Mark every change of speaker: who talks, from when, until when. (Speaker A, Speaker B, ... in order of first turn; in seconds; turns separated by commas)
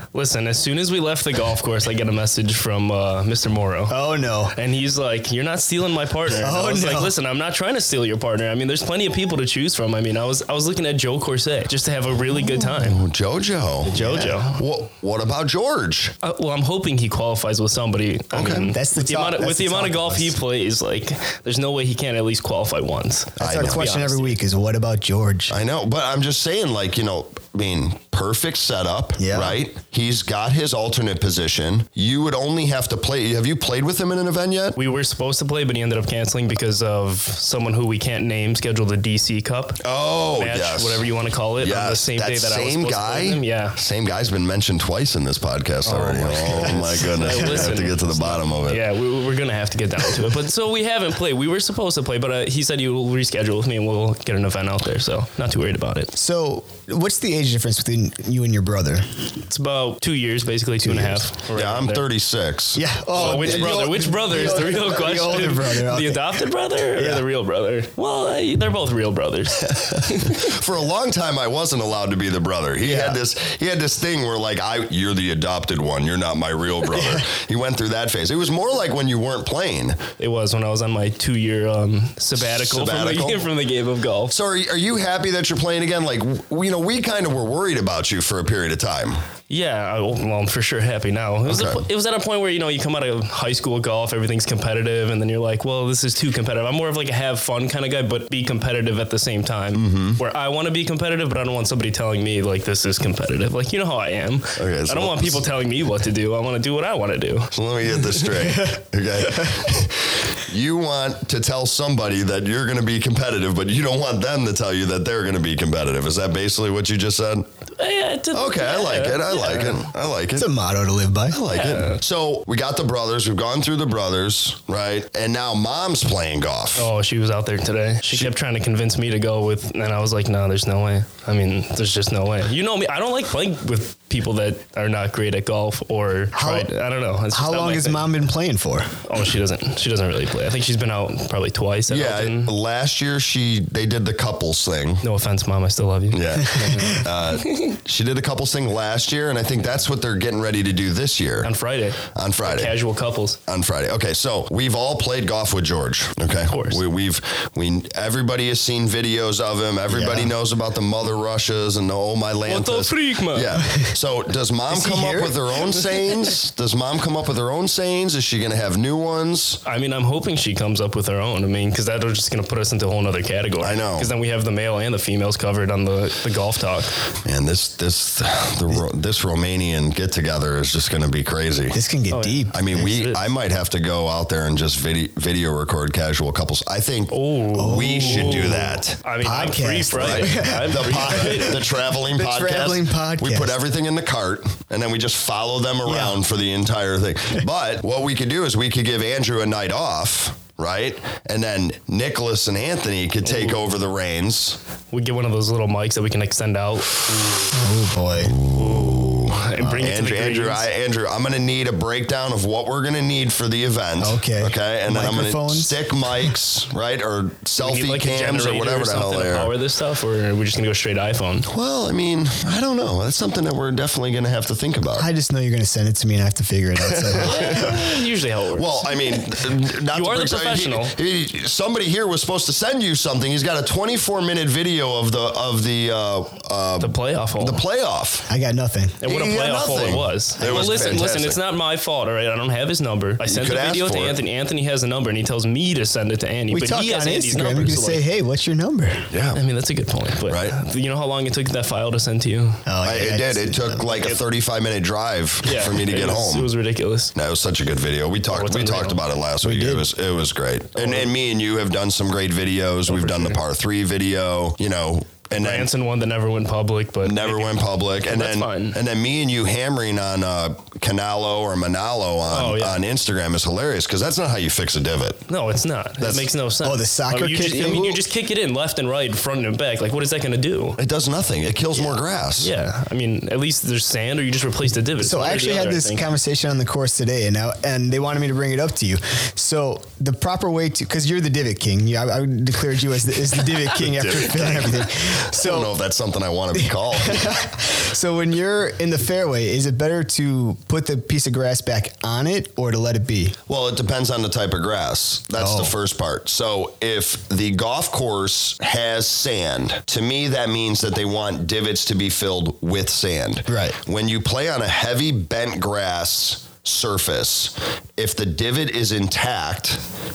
Speaker A: 0.1-4.0, Speaker B: 3.9-4.5, Speaker A: 4.5-13.0, Speaker B: 6.3-7.1, Speaker C: 12.6-16.1, Speaker B: 13.9-14.4, Speaker A: 13.9-14.6, Speaker A: 16.2-24.4, Speaker C: 18.3-18.7, Speaker B: 18.7-20.4, Speaker C: 23.4-23.9, Speaker B: 23.4-25.5, Speaker C: 25.5-34.8, Speaker B: 29.2-29.6, Speaker A: 34.8-39.8, Speaker C: 39.8-41.1, Speaker A: 40.4-43.8, Speaker C: 41.6-48.8, Speaker A: 45.8-56.1, Speaker B: 46.7-47.6, Speaker B: 56.1-59.0, Speaker A: 59.5-62.0, Speaker B: 60.8-61.2, Speaker C: 61.5-63.8, Speaker B: 62.7-67.2, Speaker A: 63.1-70.6, Speaker C: 69.7-80.0, Speaker B: 72.8-73.2, Speaker B: 77.0-77.2, Speaker A: 80.2-84.3, Speaker C: 82.3-83.5, Speaker C: 84.3-89.2, Speaker A: 89.5-108.3, Speaker C: 91.5-91.8, Speaker C: 99.7-100.2, Speaker C: 104.6-105.4, Speaker C: 107.5-117.5, Speaker B: 109.3-109.6, Speaker A: 117.8-119.8, Speaker C: 118.3-120.5, Speaker B: 120.3-121.4, Speaker C: 121.3-126.9, Speaker A: 121.5-122.0, Speaker A: 126.8-138.1, Speaker B: 136.3-136.7, Speaker B: 137.3-138.9, Speaker A: 139.0-142.5, Speaker C: 141.9-145.0, Speaker A: 145.0-147.7, Speaker C: 146.1-151.5, Speaker B: 146.5-147.0, Speaker A: 151.4-153.4, Speaker C: 152.1-152.8, Speaker C: 153.5-169.6, Speaker A: 156.5-156.8, Speaker B: 159.9-160.3, Speaker A: 162.4-163.7, Speaker B: 164.7-165.4, Speaker A: 169.6-176.9, Speaker C: 173.6-174.1, Speaker C: 177.2-181.8, Speaker B: 181.7-182.8, Speaker A: 182.1-183.2, Speaker C: 182.5-189.0, Speaker A: 187.1-191.6, Speaker B: 187.5-188.7, Speaker B: 189.2-193.6, Speaker C: 189.9-204.6, Speaker B: 195.8-196.2, Speaker A: 203.2-203.6, Speaker A: 204.9-207.5, Speaker B: 207.5-208.3, Speaker C: 208.2-219.5, Speaker A: 208.5-210.6, Speaker B: 214.0-216.3, Speaker A: 217.6-221.5, Speaker C: 221.5-225.1, Speaker B: 224.9-227.8, Speaker C: 226.9-227.8, Speaker A: 227.2-229.4, Speaker C: 228.6-238.3, Speaker A: 229.9-230.9, Speaker A: 236.8-237.6, Speaker B: 238.3-239.0, Speaker A: 239.0-248.0, Speaker C: 239.0-241.4, Speaker C: 243.2-244.2, Speaker B: 246.5-249.1, Speaker C: 249.1-249.4, Speaker A: 249.3-252.6, Speaker C: 250.3-250.5, Speaker B: 252.7-253.8, Speaker C: 252.8-256.5, Speaker A: 253.9-254.2, Speaker A: 255.4-257.1, Speaker C: 257.1-265.7, Speaker A: 258.3-259.0, Speaker B: 259.4-259.9, Speaker A: 260.7-261.1, Speaker A: 262.9-263.4, Speaker A: 265.3-268.8, Speaker C: 267.0-275.2, Speaker A: 272.3-272.8, Speaker A: 275.3-280.8, Speaker C: 276.0-276.3, Speaker B: 276.6-278.0, Speaker C: 280.8-282.5, Speaker A: 282.4-286.1, Speaker B: 285.0-295.7, Speaker C: 293.7-297.4, Speaker B: 296.6-303.4, Speaker C: 303.5-319.8, Speaker B: 305.4-305.7, Speaker B: 313.5-313.8